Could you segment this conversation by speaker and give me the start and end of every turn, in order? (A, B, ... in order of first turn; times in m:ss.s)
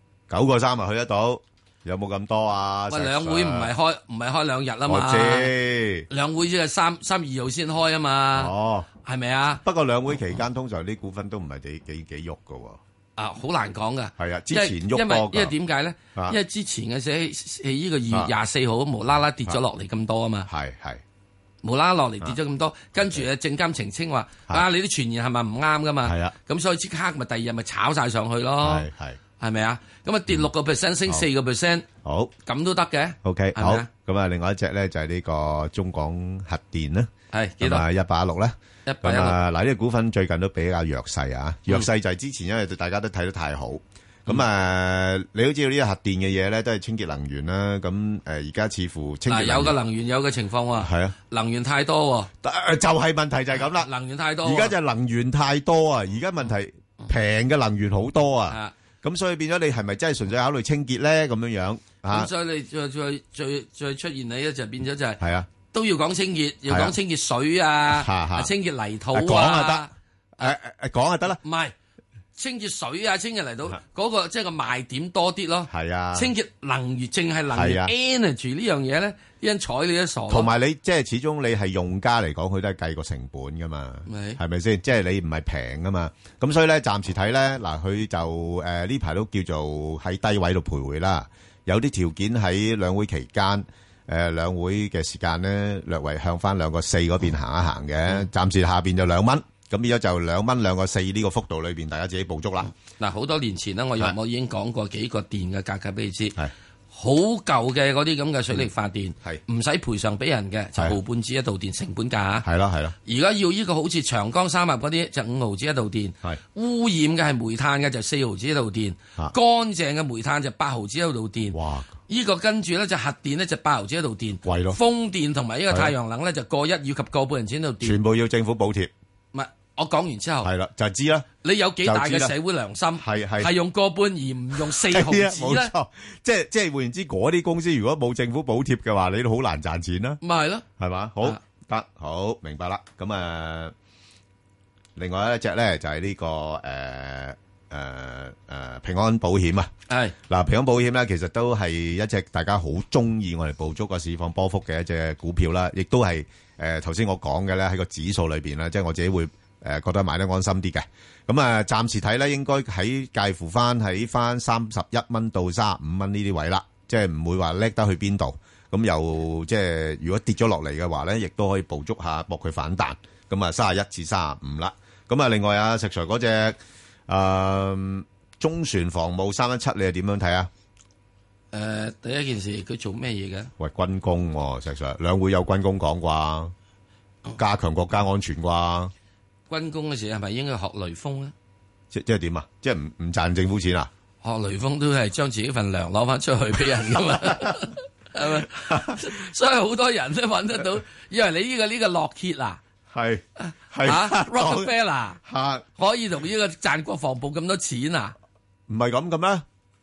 0:00.3-0:03.7 A
0:02.9-0:05.5 B
0:04.9-0:06.1 A
0:06.1-0:08.5 B
0:08.3-0:08.9 A
0:09.0-0:09.6 B
0:09.6-0:12.8 A
0:13.2-0:20.5 B
0:14.2-0:15.5 A
0:20.5-0:21.0 A
0:21.6-0:28.9 B
0:26.0-0:26.4 A
0:28.6-0:29.2 A
0:29.4-0:31.9 B
0:32.0-0:32.3 A
0:32.5-0:33.9 B
0:33.2-0:49.8 A
0:37.3-0:37.9 B
0:38.9-0:39.4 B
0:49.3-0:52.3 B
0:50.8-0:51.1 A
0:52.4-0:53.9 A
0:53.7-0:54.7 B
0:54.4-1:02.3 A
1:02.1-1:09.9 B
1:05.2-1:05.5 A
1:06.7-1:07.0 A
1:07.9-1:08.5 A
1:09.1-1:11.4 A
1:11.4-1:11.8 B
1:12.4-1:20.5 B
1:15.7-1:16.3 A
1:17.5-1:17.9 A
1:20.3-1:42.7 A
1:24.1-1:24.4 B
1:42.9-1:46.4 B
1:46.9-1:52.5 B
1:52.4-1:53.0 A
1:53.0-2:08.0 B
2:01.5-2:01.9 A
2:04.4-2:04.8 A
2:07.8-2:08.9 A
2:09.3-2:10.5 B
2:10.4-2:11.3 A
2:11.4-2:15.7 B
2:11.8-2:12.3 A
2:13.0-2:13.5 A
2:14.5-2:20.2 A
2:20.2-2:20.7 B
2:20.8-2:23.7 A
2:25.0-2:29.7 A
2:29.9-2:30.1 B
2:30.3-2:56.6 A
2:57.1-3:00.5 A
3:01.5-3:03.5 B
3:03.6-3:06.5 A
3:07.4-3:08.9 A
3:09.5-3:11.3 B
3:11.9-3:13.9 A
3:14.2-3:22.6 B
3:17.0-3:17.5 A
3:18.4-3:19.1 A
3:22.9-3:24.7 A
3:23.4-3:25.2 B
3:25.2-3:25.6 A
3:25.8-3:28.1 B
3:28.7-3:29.4 A